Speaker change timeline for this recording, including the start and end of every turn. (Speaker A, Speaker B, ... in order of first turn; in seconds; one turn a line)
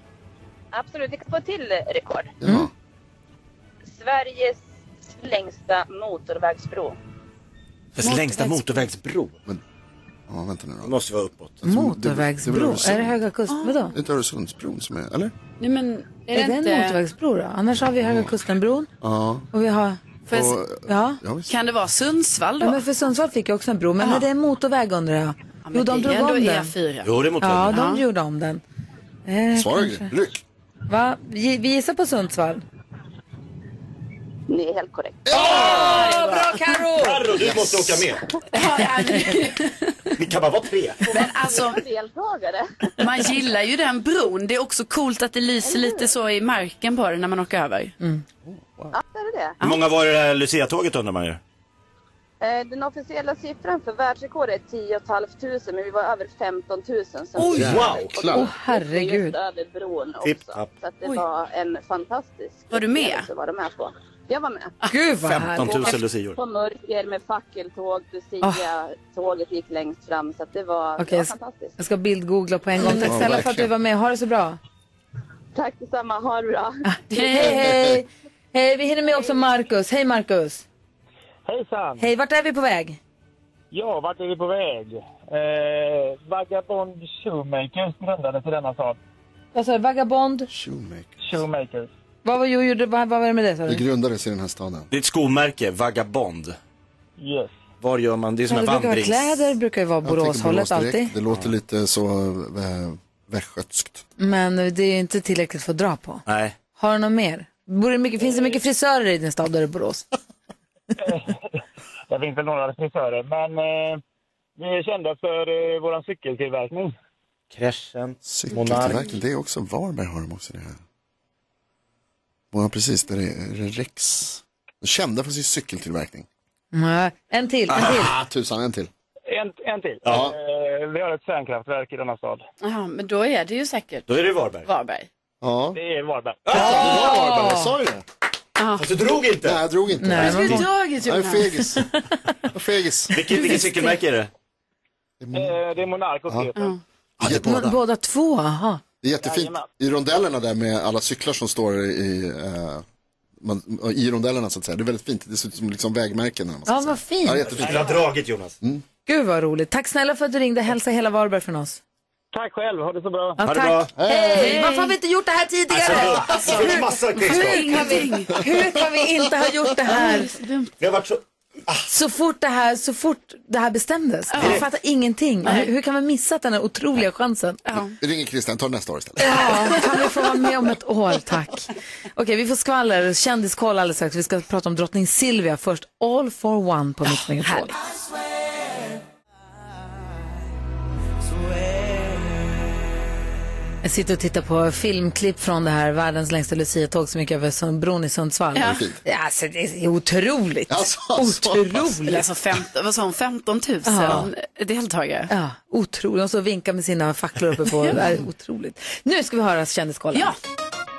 Speaker A: 0.7-2.3
Speaker B: 2.4-2.7
Speaker A: 3.9-4.6
Speaker A: 5.2-7.0
Speaker C: 8.0-9.4
Speaker D: 8.1-8.6
Speaker B: 10.3-10.9
Speaker C: 10.8-11.6
Speaker B: 11.6-13.2
Speaker E: 11.6-13.9
Speaker D: 13.5-13.8
Speaker B: 13.9-15.3
Speaker D: 15.6-17.0
Speaker E: 16.3-18.9
Speaker B: 18.0-18.3
Speaker B: 19.0-19.5
Speaker E: 19.5-20.2
Speaker B: 20.3-21.5
Speaker D: 20.3-20.6
Speaker E: 20.9-21.2
Speaker D: 21.5-22.8
Speaker E: 22.6-26.7
Speaker D: 24.0-24.3
Speaker D: 25.6-27.1
Speaker C: 27.0-27.8
Speaker E: 27.4-28.6
Speaker D: 27.7-28.0
Speaker E: 29.2-30.1
Speaker B: 29.5-30.4
Speaker E: 30.9-32.6
Speaker A: 34.5-35.3
Speaker B: 35.2-36.1
Speaker E: 35.3-37.2
Speaker C: 35.6-36.1
Speaker C: 36.9-38.2
Speaker B: 37.4-38.1
Speaker D: 38.5-40.1
Speaker C: 40.2-41.1
Speaker D: 41.1-41.8
Speaker A: 41.2-42.7
Speaker D: 43.0-47.9
Speaker A: 45.6-46.1
Speaker B: 48.4-48.9
Speaker A: 48.9-49.5
Speaker C: 49.6-51.4
Speaker A: 52.4-64.7
Speaker C: 57.4-58.3
Speaker B: 57.5-58.5
Speaker E: 58.3-59.3
Speaker C: 60.2-60.8
Speaker D: 62.7-63.3
Speaker E: 64.9-65.9
Speaker C: 65.2-66.4
Speaker A: 66.3-71.7
Speaker E: 71.0-74.6
Speaker B: 72.8-73.7
Speaker A: 75.5-76.8
Speaker E: 76.9-80.6
Speaker D: 77.1-77.6
Speaker F: 81.5-82.1
Speaker E: 82.0-83.0
Speaker F: 83.7-89.0
Speaker E: 89.5-90.5
Speaker B: 90.5-91.1
Speaker F: 91.2-91.9
Speaker E: 92.2-93.8
Speaker B: 93.7-94.9
Speaker C: 94.9-96.6
Speaker F: 97.2-97.5
Speaker C: 97.8-99.5
Speaker E: 98.5-101.1
Speaker B: 100.0-104.0
Speaker E: 104.2-106.2
Speaker C: 106.3-106.5
Speaker E: 106.7-110.0
Speaker F: 112.1-114.0
Speaker F: 114.6-116.9
Speaker C: 117.5-119.1
Speaker B: 118.2-120.8
Speaker B: 122.5-126.3
Speaker E: 126.7-128.1
Speaker B: 127.8-128.9
Speaker F: 129.3-132.4
Speaker C: 130.0-130.3
Speaker B: 130.1-130.3
Speaker D: 132.6-134.1
Speaker C: 134.1-134.7
Speaker D: 134.7-135.1
Speaker B: 135.4-135.8
Speaker F: 135.7-136.4
Speaker C: 136.4-137.1
Speaker B: 136.5-138.0
Speaker E: 136.5-137.7
Speaker D: 138.6-138.8
Speaker C: 138.8-139.6
Speaker B: 139.4-141.8
Speaker E: 140.0-140.7
Speaker D: 140.2-141.7
Speaker B: 142.5-143.1
Speaker C: 143.1-144.3
Speaker B: 145.2-145.6
Speaker F: 145.3-146.7
Speaker B: 147.2-147.8
Speaker E: 147.2-148.8
Speaker B: 149.0-152.8
Speaker F: 149.2-149.6
Speaker B: 153.4-158.0
Speaker E: 156.7-157.5
Speaker C: 157.5-158.5
Speaker E: 159.1-161.8
Speaker F: 162.3-163.4
Speaker E: 163.4-170.3
Speaker C: 163.4-163.9
Speaker B: 163.9-164.6
Speaker D: 164.3-164.9
Speaker C: 165.7-168.0
Speaker D: 166.2-168.4
Speaker D: 169.9-170.7
Speaker C: 170.8-171.8
Speaker E: 171.9-177.6
Speaker D: 174.3-174.6
Speaker D: 175.4-175.7
Speaker D: 177.7-177.9
Speaker B: 178.0-179.8
Speaker E: 179.2-187.7
Speaker E: 193.8-202.2
Speaker D: 198.5-198.8
Speaker B: 198.6-199.0
Speaker B: 200.7-202.0
Speaker D: 202.0-205.3
Speaker E: 203.8-204.2
Speaker E: 205.3-210.3